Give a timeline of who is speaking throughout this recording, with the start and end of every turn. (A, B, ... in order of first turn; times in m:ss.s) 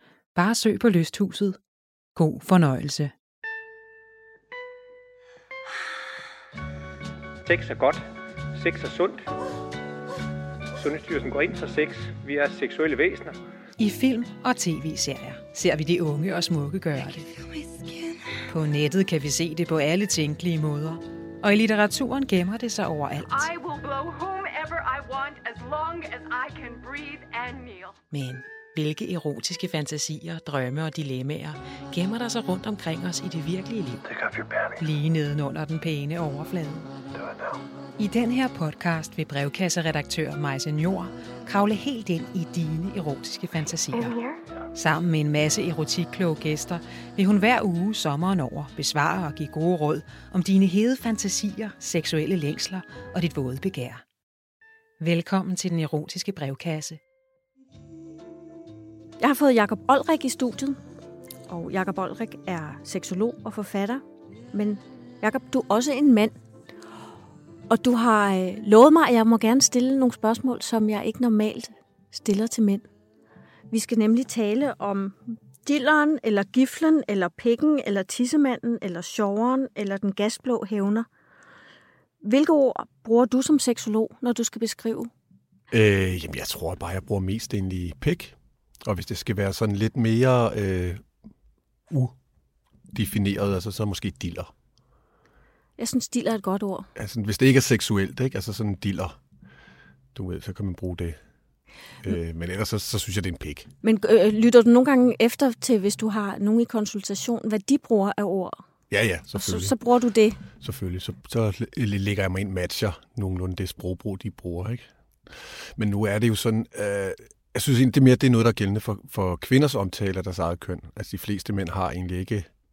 0:00.3-0:01.6 A
0:02.1-0:03.1 A
0:07.4-0:09.3 B
0:10.7-0:13.4 B
0:13.8-0:17.3 A
0:18.4-0:23.5 A
0:23.3-0:28.0 C
0:28.1-0:34.2 A
0:34.2-0:34.7 B
0:34.8-0:36.9 A
0:38.0-0:44.2 A
0:44.7-0:54.0 A
0:55.0-0:57.0 A
0:59.2-1:00.8 D
1:01.5-1:06.3 D
1:07.7-1:12.8 D
1:13.7-1:21.1 D
1:22.2-1:25.1 D
1:25.7-1:31.0 E
1:32.9-1:34.5 E
1:35.8-1:36.9 D
1:36.9-1:39.2 E
1:40.1-1:41.2 E
1:42.0-1:43.7 E
1:43.8-1:48.6 D
1:48.9-1:49.7 E
1:49.3-1:50.4 D
1:50.6-1:54.9 E
1:55.8-2:02.5 E